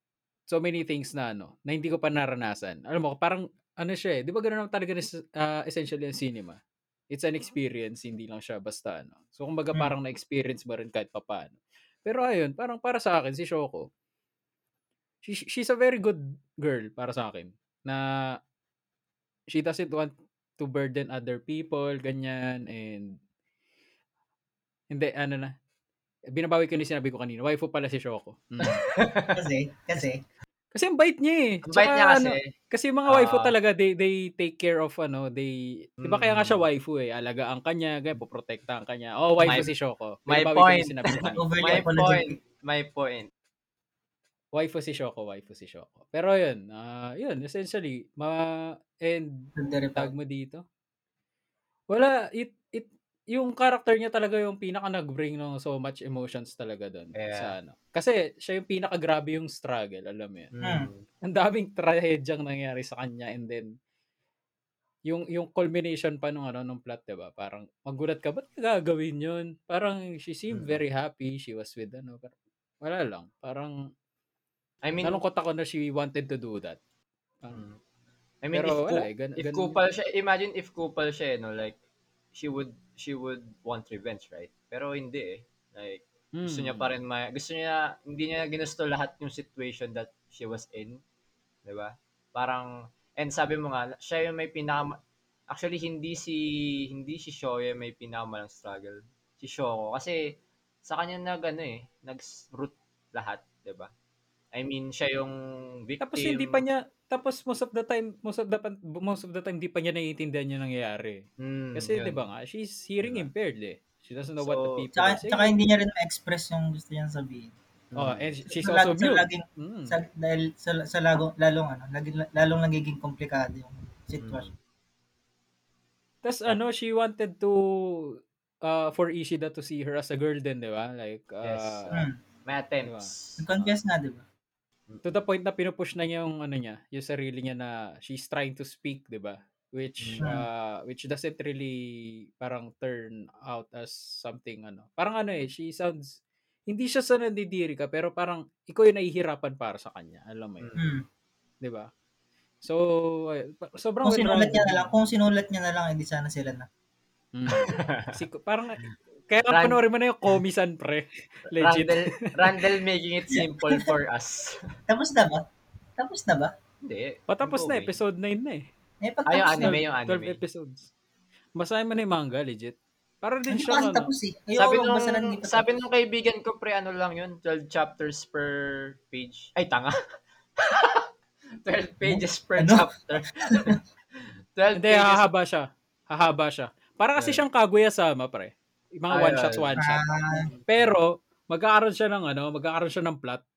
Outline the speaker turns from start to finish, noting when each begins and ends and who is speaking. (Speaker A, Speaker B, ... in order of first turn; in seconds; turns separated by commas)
Speaker A: 0.5-6.6, Speaker A: 7.1-13.9, Speaker A: 15.2-18.4, Speaker A: 19.5-23.2, Speaker A: 24.9-25.5, Speaker A: 26.3-28.8, Speaker B: 28.6-29.3, Speaker C: 29.3-30.2, Speaker A: 30.7-41.8, Speaker B: 31.6-32.5, Speaker B: 33.0-33.5, Speaker B: 36.0-36.6, Speaker B: 39.4-39.7, Speaker B: 40.3-43.3, Speaker C: 41.1-42.4, Speaker A: 44.5-50.6, Speaker C: 49.6-50.1, Speaker A: 51.9-60.5, Speaker B: 57.1-57.5, Speaker B: 60.5-61.0, Speaker C: 60.6-60.9, Speaker A: 61.2-63.7, Speaker A: 65.1-73.8, Speaker B: 70.5-70.8, Speaker B: 74.8-75.2, Speaker A: 75.0-76.8, Speaker B: 77.5-77.8, Speaker B: 78.4-81.8, Speaker A: 78.5-79.8, Speaker B: 82.3-91.0, Speaker A: 86.3-86.9, Speaker B: 91.6-95.0, Speaker B: 95.5-100.3, Speaker B: 100.8-103.9, Speaker B: 104.5-106.6, Speaker A: 106.0-115.5, Speaker B: 111.4-112.2, Speaker B: 113.0-113.3, Speaker B: 114.4-114.9, Speaker C: 115.0-117.5, Speaker B: 117.9-118.3, Speaker A: 118.0-120.0, Speaker C: 118.5-124.5, Speaker B: 124.2-124.5, Speaker A: 126.2-132.0, Speaker B: 131.4-133.7, Speaker A: 132.8-133.1, Speaker C: 133.4-134.2, Speaker A: 135.0-150.7, Speaker B: 140.0-140.3, Speaker C: 140.2-140.4, Speaker B: 150.6-150.9, Speaker C: 150.8-151.0, Speaker A: 151.6-151.9, Speaker A: 152.6-154.9, Speaker C: 154.0-156.7, Speaker A: 157.3-162.5, Speaker B: 157.6-158.1, Speaker B: 159.5-159.8, Speaker B: 161.5-164.7, Speaker C: 163.3-163.9, Speaker C: 164.9-165.4, Speaker C: 166.0-166.5, Speaker B: 166.8-168.0, Speaker A: 167.3-168.7, Speaker C: 169.0-169.8, Speaker B: 169.3-170.4, Speaker A: 169.6-170.9, Speaker A: 171.6-174.1, Speaker C: 173.5-175.8, Speaker B: 174.6-180.0, Speaker B: 180.6-181.1, Speaker B: 181.6-183.8, Speaker C: 182.0-183.8, Speaker B: 184.6-185.2, Speaker A: 184.8-190.0, Speaker B: 187.2-187.4, Speaker B: 189.1-189.7, Speaker C: 189.8-190.5, Speaker B: 190.4-190.9, Speaker A: 190.7-193.4